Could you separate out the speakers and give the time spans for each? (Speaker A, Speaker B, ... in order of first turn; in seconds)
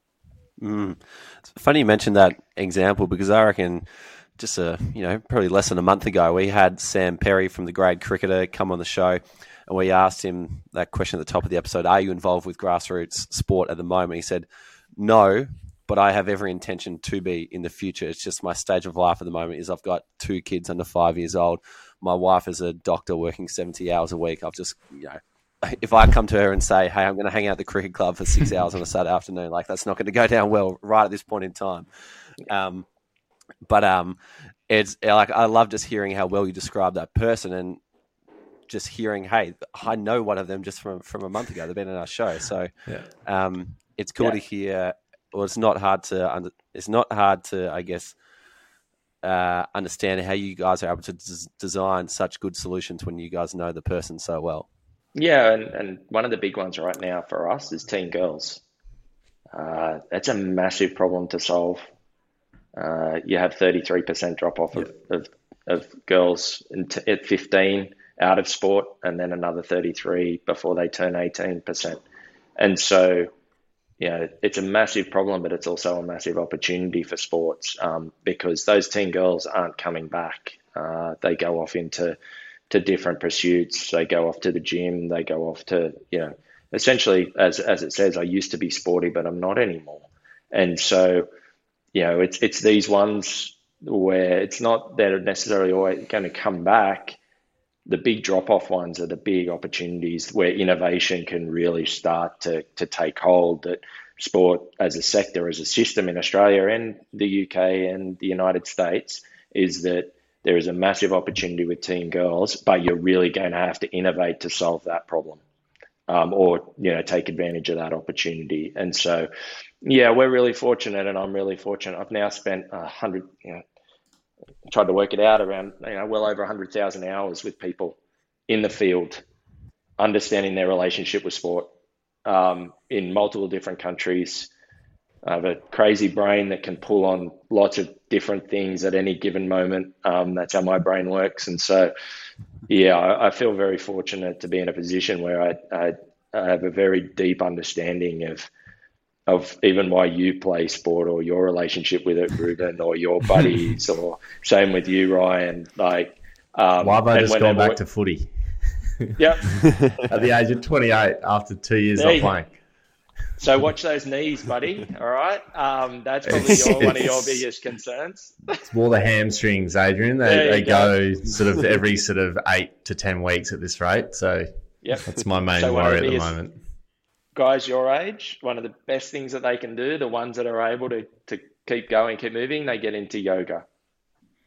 Speaker A: 0.6-31.9, 32.4-32.9, 33.6-37.8, 38.7-48.2, 49.2-54.7
Speaker B: 55.2-58.6, 59.5-61.9, 62.8-72.0, 72.6-73.3, 74.0-82.2, 82.7-91.3, 91.9-97.2, 97.9-115.4, 116.1-119.3, 119.8-123.6, 124.7-128.0, 128.5-129.2, 130.0-131.7, 132.2-134.5, 135.2-141.9, 142.7-148.5, 149.3-157.8, 159.2-159.5, 162.0-162.3, 163.4-168.4, 170.2-171.0, 174.8-176.4, 177.3-183.6
Speaker C: 156.8-158.3, 159.6-162.5, 166.3-167.4, 168.6-174.5, 175.1-176.6